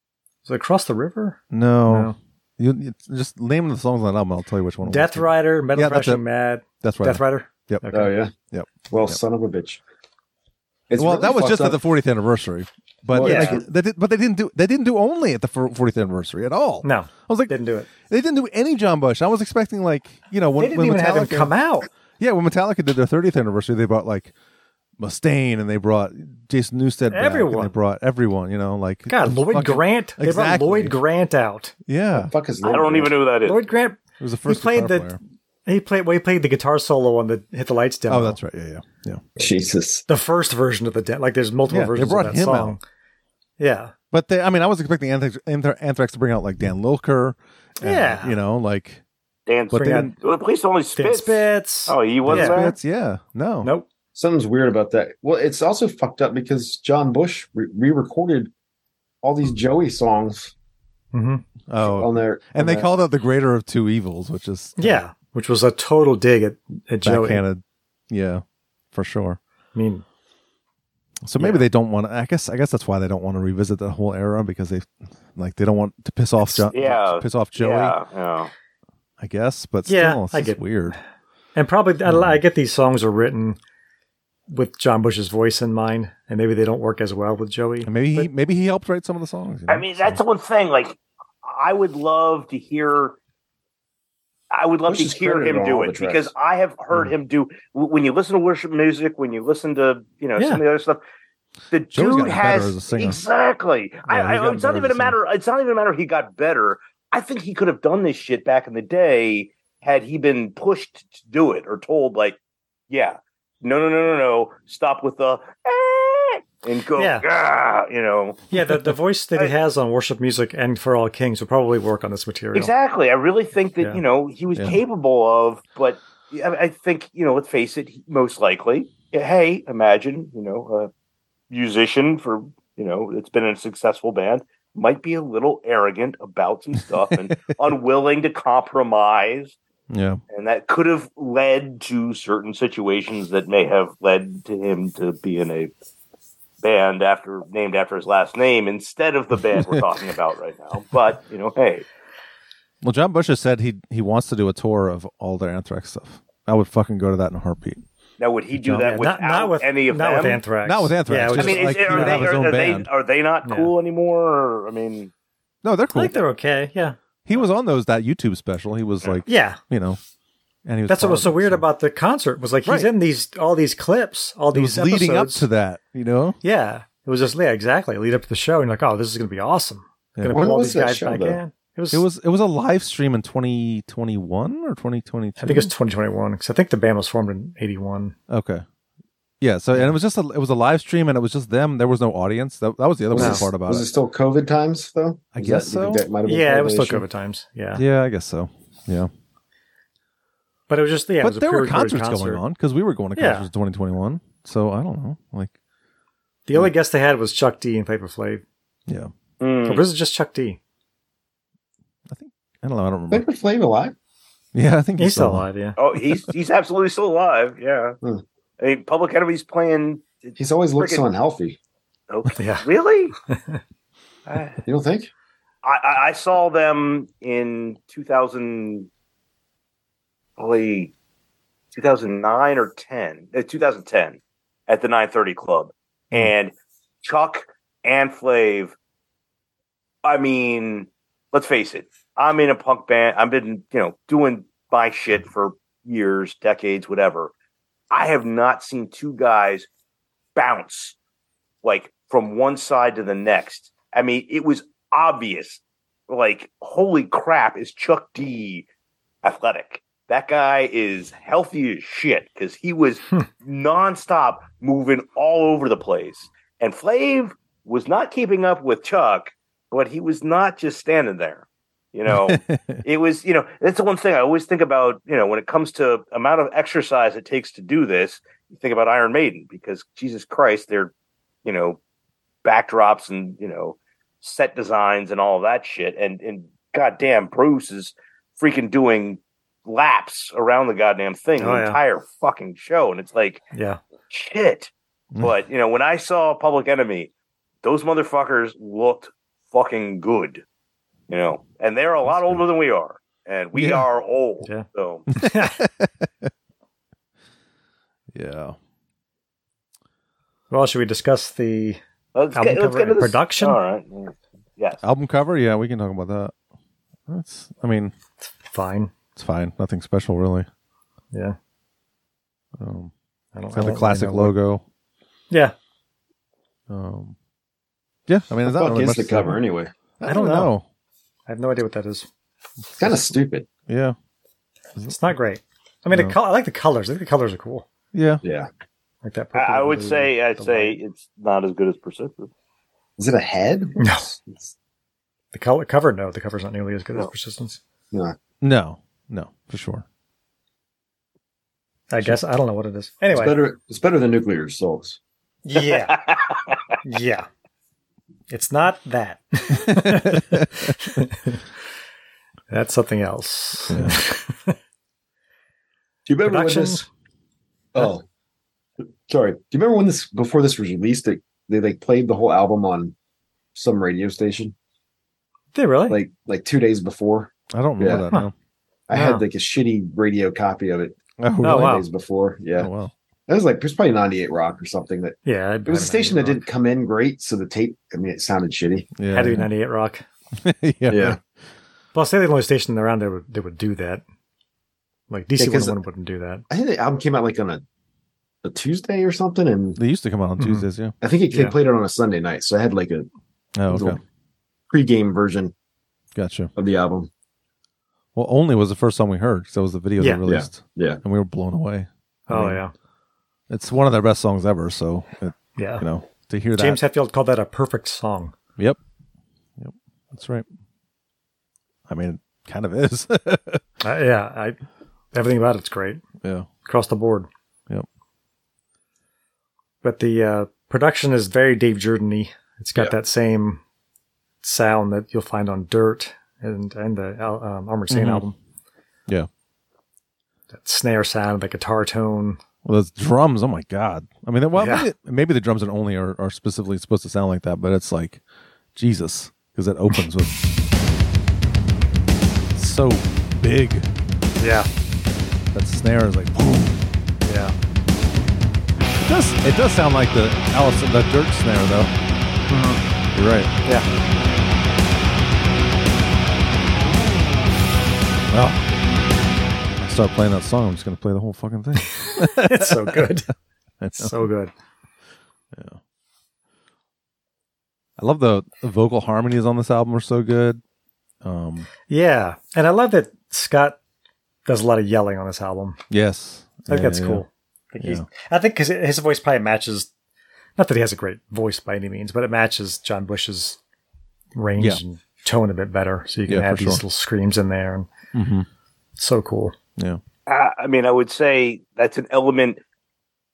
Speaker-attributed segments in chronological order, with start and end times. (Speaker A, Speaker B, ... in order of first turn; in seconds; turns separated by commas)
Speaker A: 0.5-2.1, Speaker B: 1.5-6.2, Speaker A: 4.8-8.1, Speaker B: 6.8-7.9, Speaker C: 7.9-8.3, Speaker B: 8.4-9.2, Speaker C: 8.9-9.8, Speaker C: 10.9-11.8, Speaker B: 10.9-21.5, Speaker C: 13.1-13.7, Speaker A: 13.2-13.6, Speaker A: 16.8-17.9, Speaker A: 20.6-21.9, Speaker B: 22.2-24.3, Speaker B: 25.0-31.0, Speaker A: 27.1-27.7, Speaker A: 29.1-31.7, Speaker B: 31.9-32.3, Speaker C: 32.1-33.2, Speaker D: 32.6-33.6, Speaker A: 33.5-38.4, Speaker B: 34.2-35.2, Speaker B: 38.1-39.2, Speaker C: 39.4-40.0, Speaker A: 40.1-42.8, Speaker B: 41.7-42.8, Speaker A: 43.6-43.9, Speaker B: 44.1-49.0, Speaker A: 47.8-48.4, Speaker D: 49.5-52.7, Speaker B: 49.7-50.1, Speaker A: 49.7-50.1, Speaker A: 51.0-52.8, Speaker B: 52.3-53.7, Speaker C: 54.1-58.5, Speaker C: 59.2-60.5, Speaker A: 61.1-61.5, Speaker B: 61.7-65.0, Speaker C: 61.8-62.9, Speaker A: 64.8-67.4, Speaker B: 67.0-69.4, Speaker A: 69.7-70.0, Speaker B: 71.2-78.0, Speaker A: 71.4-71.7, Speaker D: 76.7-78.5, Speaker B: 79.2-81.0, Speaker A: 79.9-81.0, Speaker A: 81.5-83.6, Speaker B: 82.0-82.4, Speaker A: 84.5-88.3, Speaker B: 87.8-90.2, Speaker D: 89.7-93.2, Speaker D: 94.5-101.0, Speaker C: 94.9-96.3, Speaker A: 100.4-100.6, Speaker D: 101.7-112.4, Speaker B: 101.9-103.2, Speaker A: 104.1-104.8, Speaker B: 104.1-105.1, Speaker D: 112.9-119.5, Speaker A: 117.0-117.2, Speaker A: 118.5-122.7, Speaker D: 122.5-130.9, Speaker B: 124.5-124.8, Speaker D: 131.5-139.6, Speaker B: 139.9-140.2, Speaker D: 140.3-145.7, Speaker D: 146.6-151.9, Speaker B: 152.8-157.8, Speaker D: 158.2-160.4, Speaker A: 158.6-162.3, Speaker B: 160.6-162.9, Speaker D: 161.3-165.1, Speaker A: 163.4-163.7, Speaker B: 165.6-166.2, Speaker A: 165.9-167.0, Speaker B: 167.2-170.0, Speaker A: 169.3-169.6, Speaker B: 170.7-171.7, Speaker A: 170.9-175.4, Speaker B: 172.7-172.9, Speaker B: 174.5-176.4, Speaker A: 176.4-182.1, Speaker B: 180.2-180.4, Speaker C: 180.3-181.4, Speaker B: 181.9-185.7, Speaker A: 185.4-188.2, Speaker B: 188.3-188.7, Speaker B: 189.4-193.9, Speaker C: 193.1-197.1, Speaker A: 193.2-193.5, Speaker B: 195.3-196.1, Speaker A: 196.2-197.8, Speaker B: 197.7-199.1, Speaker A: 200.7-202.4, Speaker B: 201.2-205.5, Speaker A: 203.2-203.5, Speaker A: 206.5-208.4, Speaker D: 209.4-209.9, Speaker A: 209.7-210.6, Speaker B: 212.1-213.2, Speaker C: 213.1-213.9, Speaker B: 214.5-215.5, Speaker A: 215.0-215.8, Speaker D: 215.8-218.0, Speaker D: 218.6-221.0, Speaker C: 220.4-221.6, Speaker D: 222.1-223.1, Speaker A: 222.4-222.7, Speaker A: 223.3-223.6, Speaker D: 224.3-224.6, Speaker C: 224.7-225.1, Speaker D: 225.6-228.9, Speaker D: 230.4-230.9, Speaker D: 231.7-238.7, Speaker D: 240.0-247.3, Speaker D: 247.9-249.7, Speaker D: 250.3-250.9, Speaker D: 251.6-258.6, Speaker D: 259.2-280.9, Speaker B: 272.1-272.8, Speaker D: 281.4-281.8, Speaker D: 282.4-293.4, Speaker A: 291.4-291.8, Speaker A: 293.5-293.8, Speaker D: 294.1-297.1, Speaker D: 297.6-300.4, Speaker D: 301.1-305.1, Speaker B: 302.1-302.4, Speaker B: 303.6-303.9, Speaker A: 304.4-305.6, Speaker B: 305.1-306.3, Speaker B: 308.1-308.6, Speaker A: 310.5-311.8, Speaker D: 312.1-314.8, Speaker A: 312.3-313.6, Speaker B: 314.8-316.3, Speaker B: 317.1-317.9, Speaker A: 318.4-318.9, Speaker B: 319.1-320.5, Speaker B: 322.6-322.9, Speaker A: 323.3-324.4, Speaker B: 323.5-324.6, Speaker B: 326.7-327.1, Speaker B: 328.1-329.4, Speaker C: 328.4-329.7, Speaker B: 330.0-330.6, Speaker A: 330.1-330.5, Speaker A: 331.3-332.1, Speaker B: 332.7-333.1, Speaker C: 332.8-333.5, Speaker B: 333.7-333.9, Speaker A: 334.9-337.6, Speaker B: 335.9-336.2, Speaker B: 337.9-338.2, Speaker C: 338.2-338.5, Speaker A: 339.0-340.8, Speaker D: 339.4-342.3, Speaker C: 343.0-344.5, Speaker A: 343.8-344.1, Speaker A: 345.3-347.6, Speaker B: 348.4-349.9, Speaker A: 351.9-353.4, Speaker C: 353.1-355.0, Speaker A: 355.4-356.0, Speaker D: 355.6-356.6, Speaker A: 356.8-357.3, Speaker A: 358.3-361.4, Speaker B: 359.7-360.4, Speaker A: 362.5-364.6, Speaker B: 363.7-364.0, Speaker C: 366.1-366.9, Speaker A: 366.2-366.9, Speaker C: 367.7-368.0, Speaker C: 369.1-372.9, Speaker C: 373.6-374.6, Speaker A: 375.5-376.0, Speaker C: 375.9-378.1, Speaker B: 377.5-378.3, Speaker C: 378.9-382.7, Speaker A: 378.9-379.2, Speaker B: 381.2-381.8, Speaker A: 381.4-381.9, Speaker B: 382.6-382.9, Speaker C: 383.3-388.9, Speaker A: 385.2-386.4, Speaker B: 389.0-389.5, Speaker A: 389.1-390.1, Speaker B: 390.4-391.2, Speaker C: 390.9-391.2, Speaker A: 391.9-394.0, Speaker A: 395.1-396.4, Speaker C: 395.4-395.8, Speaker C: 396.5-397.6, Speaker C: 398.4-399.8, Speaker B: 399.8-400.9, Speaker A: 400.4-400.7, Speaker C: 401.0-403.1, Speaker A: 401.3-401.6, Speaker B: 403.6-404.0, Speaker C: 403.7-404.0, Speaker C: 404.7-405.5, Speaker B: 406.1-406.5, Speaker C: 406.6-407.1, Speaker B: 408.1-412.6, Speaker C: 410.2-411.0, Speaker A: 412.3-412.7, Speaker B: 413.5-416.8, Speaker A: 415.6-415.9, Speaker A: 416.6-418.4, Speaker B: 419.6-420.4, Speaker B: 421.9-423.6, Speaker A: 423.8-424.6, Speaker A: 425.1-426.0, Speaker B: 426.2-426.5, Speaker A: 426.6-427.3, Speaker A: 429.8-433.6, Speaker A: 434.4-438.4, Speaker B: 437.9-438.2, Speaker A: 440.5-442.4, Speaker B: 442.6-448.2, Speaker A: 444.6-444.9, Speaker B: 448.8-450.4, Speaker B: 452.6-453.9, Speaker A: 454.4-454.7, Speaker B: 455.5-456.8, Speaker A: 457.2-457.6, Speaker B: 459.1-461.9, Speaker A: 462.5-462.8, Speaker B: 463.1-463.5, Speaker B: 468.3-468.6, Speaker B: 469.8-473.1, Speaker A: 472.1-473.3, Speaker B: 473.8-474.3, Speaker A: 474.0-474.5, Speaker B: 475.5-475.8, Speaker B: 478.0-480.6, Speaker B: 481.2-481.7, Speaker A: 481.9-483.8, Speaker A: 484.4-485.8, Speaker B: 485.9-487.2, Speaker A: 486.7-489.9, Speaker B: 487.8-488.1, Speaker A: 490.6-493.6, Speaker A: 494.4-497.9, Speaker B: 496.3-496.8, Speaker B: 498.1-498.5, Speaker A: 499.0-499.6, Speaker D: 500.3-502.6